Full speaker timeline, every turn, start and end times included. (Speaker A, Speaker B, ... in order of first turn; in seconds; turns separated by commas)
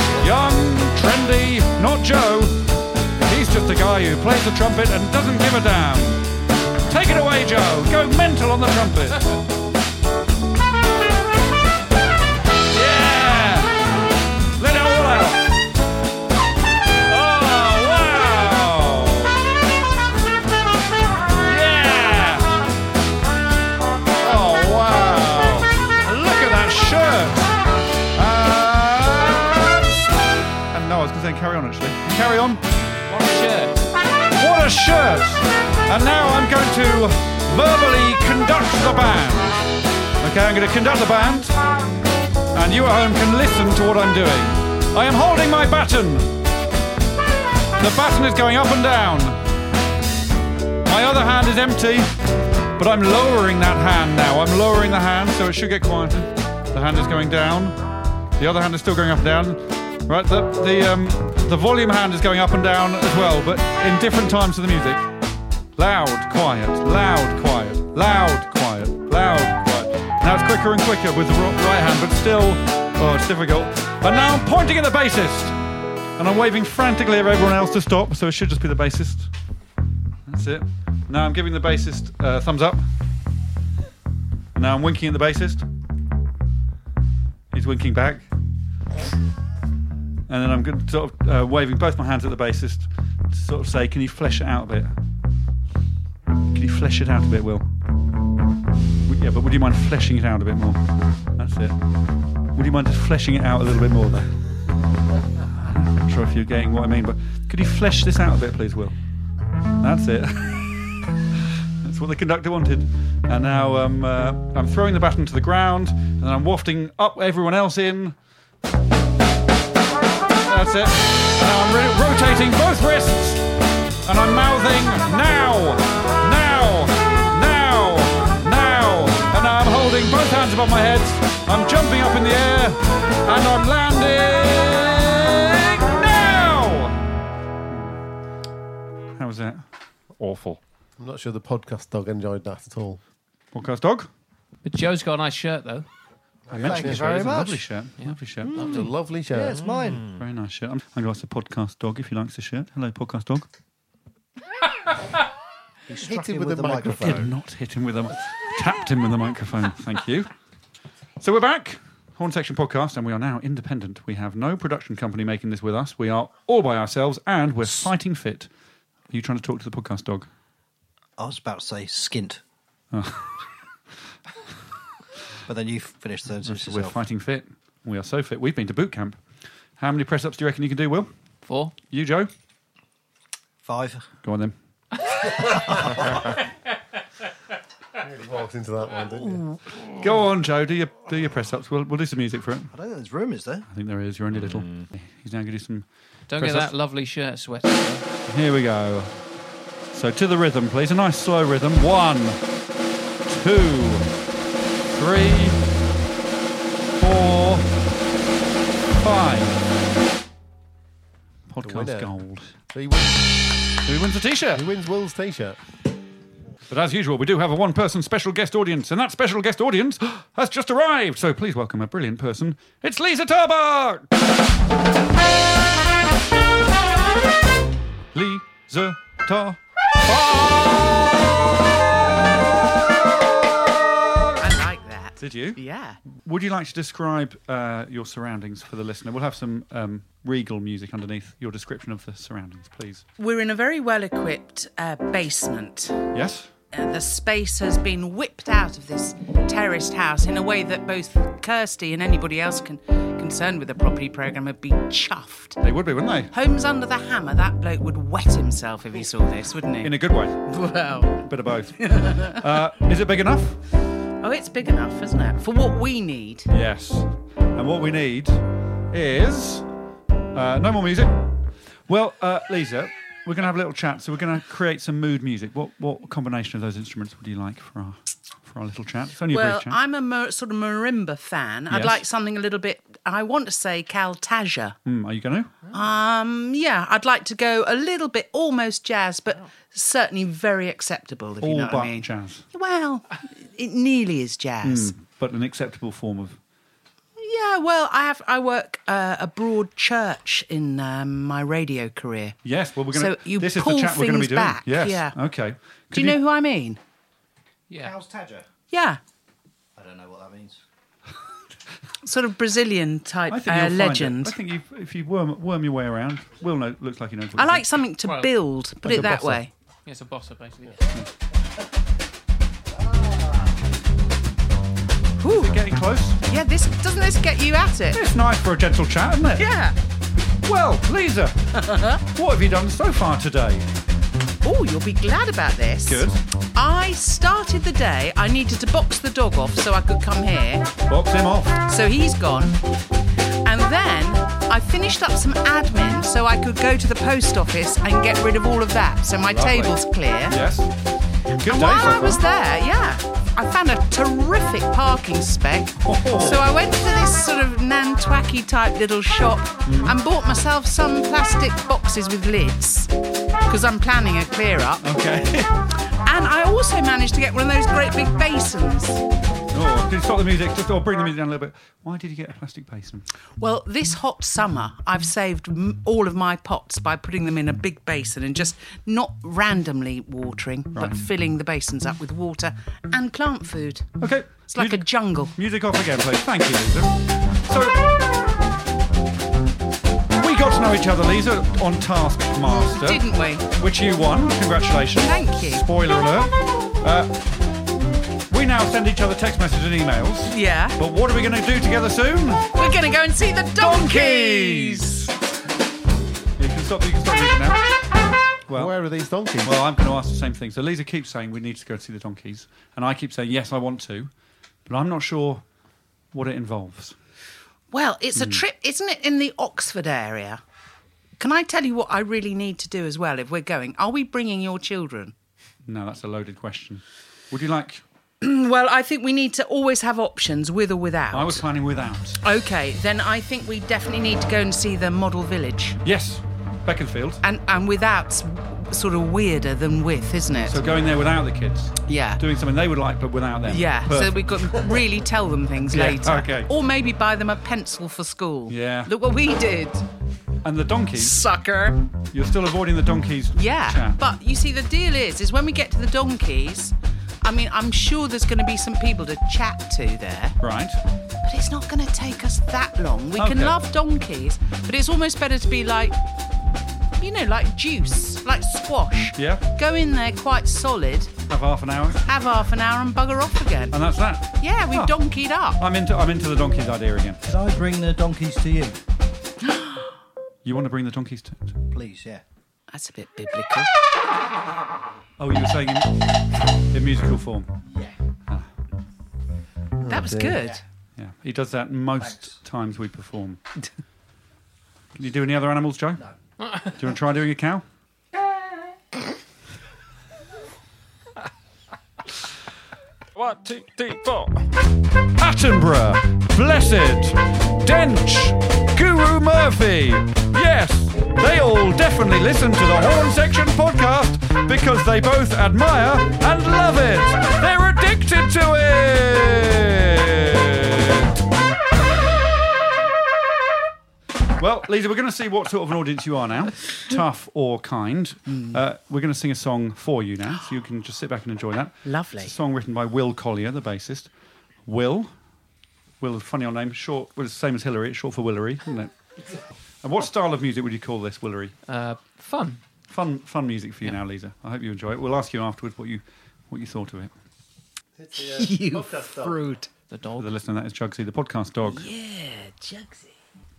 Speaker A: 0.2-2.6, Speaker A: 3.2-6.2, Speaker A: 6.9-9.2, Speaker A: 12.7-13.8, Speaker A: 14.6-15.5, Speaker A: 17.1-19.4, Speaker A: 21.4-22.5, Speaker A: 24.2-27.5, Speaker A: 28.1-32.6, Speaker B: 33.1-33.9, Speaker A: 34.4-39.6, Speaker A: 40.2-41.6, Speaker A: 42.5-46.3, Speaker A: 47.8-49.4, Speaker A: 50.8-52.1, Speaker A: 52.8-57.8, Speaker A: 58.4-65.0, Speaker A: 65.8-75.6, Speaker A: 76.2-79.3, Speaker A: 80.3-82.8, Speaker A: 84.5-85.7, Speaker A: 87.5-88.2, Speaker A: 90.3-94.9, Speaker A: 96.5-97.7, Speaker A: 99.0-100.8, Speaker A: 101.3-101.8, Speaker A: 102.5-104.3, Speaker A: 105.6-109.0, Speaker A: 109.8-110.7, Speaker A: 111.8-118.2, Speaker A: 120.4-123.4, Speaker A: 124.0-136.9, Speaker A: 137.7-138.0, Speaker A: 139.2-139.6, Speaker C: 140.2-140.6, Speaker D: 141.0-143.0, Speaker A: 143.5-144.1, Speaker B: 144.6-145.9, Speaker D: 146.5-147.1, Speaker A: 146.5-148.6, Speaker E: 146.5-147.6, Speaker B: 148.0-148.9, Speaker E: 148.4-150.1, Speaker D: 148.7-149.7, Speaker C: 149.7-150.2, Speaker A: 150.1-153.5, Speaker E: 155.9-157.3, Speaker D: 156.0-157.2, Speaker A: 156.9-160.3, Speaker A: 161.2-168.5, Speaker A: 169.1-170.3, Speaker E: 171.2-172.4, Speaker A: 172.9-173.3, Speaker E: 175.4-177.0, Speaker A: 176.4-179.2, Speaker A: 179.8-181.1, Speaker B: 181.4-181.7, Speaker A: 181.9-182.3, Speaker E: 183.6-184.1, Speaker A: 184.2-184.5, Speaker E: 185.3-186.1, Speaker D: 188.0-189.4, Speaker A: 189.5-192.7, Speaker E: 192.7-193.7, Speaker A: 193.7-196.7, Speaker C: 194.3-194.9, Speaker B: 196.3-198.1, Speaker A: 198.3-199.1, Speaker A: 199.9-202.4, Speaker A: 203.2-204.1, Speaker A: 204.8-205.6, Speaker A: 206.9-207.7, Speaker A: 209.0-209.6, Speaker A: 211.5-212.5, Speaker D: 211.6-212.1, Speaker D: 212.7-213.2, Speaker A: 213.8-214.7, Speaker D: 214.6-215.6, Speaker A: 216.7-224.1, Speaker A: 228.1-230.9, Speaker F: 234.4-236.0, Speaker A: 235.2-235.6, Speaker A: 236.1-243.0, Speaker F: 243.2-246.0, Speaker A: 246.1-246.5, Speaker F: 246.7-255.6, Speaker A: 255.6-256.3, Speaker F: 256.3-261.3, Speaker A: 259.8-260.4, Speaker A: 261.2-263.6, Speaker F: 261.8-262.4, Speaker F: 264.2-266.5, Speaker A: 266.5-269.6, Speaker A: 270.3-271.1, Speaker A: 271.9-279.8, Speaker F: 279.3-284.8, Speaker A: 281.7-282.0, Speaker A: 284.9-285.5, Speaker F: 285.7-294.9, Speaker A: 291.4-292.4, Speaker A: 294.6-296.4, Speaker F: 297.2-302.4, Speaker A: 302.4-306.2, Speaker F: 302.9-305.2, Speaker F: 305.9-306.8, Speaker E: 307.7-308.5, Speaker F: 308.7-309.0, Speaker E: 309.8-310.6, Speaker F: 312.0-314.3, Speaker A: 313.3-317.6, Speaker F: 317.4-319.5, Speaker B: 318.0-318.3, Speaker B: 319.9-320.8, Speaker E: 323.0-323.5, Speaker F: 325.2-325.6, Speaker A: 325.2-326.2, Speaker F: 326.3-328.0, Speaker A: 327.9-329.4, Speaker F: 329.4-329.7, Speaker A: 330.4-331.4, Speaker F: 331.5-332.0, Speaker A: 332.1-333.7, Speaker F: 334.4-336.0, Speaker A: 335.9-336.2, Speaker F: 336.5-340.7, Speaker A: 340.9-341.6, Speaker F: 341.6-342.6, Speaker F: 343.4-350.4, Speaker A: 349.3-349.7, Speaker A: 350.3-350.7, Speaker A: 351.4-352.2, Speaker F: 351.4-362.9, Speaker A: 355.8-356.5, Speaker A: 359.6-360.0, Speaker F: 363.5-364.8, Speaker A: 364.8-365.6, Speaker F: 366.0-369.0, Speaker A: 369.5-373.1, Speaker F: 373.4-385.3, Speaker A: 384.0-387.8, Speaker A: 390.1-393.0, Speaker F: 392.7-393.4, Speaker A: 393.5-397.1, Speaker F: 394.9-395.6, Speaker A: 398.3-402.5, Speaker F: 400.3-400.8, Speaker F: 402.5-405.1, Speaker A: 403.6-405.1, Speaker A: 406.4-407.6, Speaker A: 408.5-408.8, Speaker D: 408.5-409.6, Speaker A: 409.4-414.1, Speaker A: 414.7-415.4, Speaker A: 416.1-416.9, Speaker F: 417.7-420.4, Speaker A: 418.1-418.4, Speaker F: 421.2-425.1, Speaker A: 425.7-427.8, Speaker F: 428.2-431.4, Speaker A: 431.1-432.2, Speaker F: 432.2-435.8, Speaker A: 435.8-437.2, Speaker F: 437.2-440.6, Speaker A: 440.4-444.3, Speaker F: 441.9-442.2, Speaker F: 443.5-449.8, Speaker A: 445.7-446.5, Speaker A: 448.5-448.9, Speaker A: 450.4-451.2, Speaker F: 450.9-451.8, Speaker A: 452.1-454.0, Speaker F: 453.3-460.4, Speaker A: 460.4-460.8, Speaker F: 461.2-465.9, Speaker A: 463.2-463.6, Speaker F: 467.0-471.1, Speaker A: 469.1-469.4, Speaker A: 471.3-472.0, Speaker F: 472.1-473.8, Speaker A: 473.7-474.9, Speaker F: 474.4-475.6, Speaker A: 475.6-477.2, Speaker E: 477.2-478.8, Speaker F: 479.4-479.9, Speaker A: 480.4-481.6, Speaker E: 481.7-482.2, Speaker F: 482.7-483.7, Speaker A: 485.2-485.9, Speaker A: 486.7-487.5, Speaker D: 489.8-490.5, Speaker F: 489.9-490.6, Speaker E: 490.3-490.6, Speaker A: 491.0-493.4, Speaker E: 492.0-492.4, Speaker A: 494.9-496.0, Speaker B: 496.4-496.7, Speaker A: 496.7-497.6, Speaker C: 503.1-504.4, Speaker A: 505.2-521.1, Speaker A: 524.4-534.1, Speaker F: 528.3-528.6, Speaker F: 531.8-532.3, Speaker A: 534.6-535.1, Speaker A: 536.0-538.9, Speaker A: 539.8-541.5, Speaker B: 541.6-542.6, Speaker A: 542.9-547.1, Speaker D: 548.0-549.4, Speaker F: 548.1-549.7, Speaker B: 549.9-550.3, Speaker A: 550.2-551.9, Speaker F: 551.6-553.1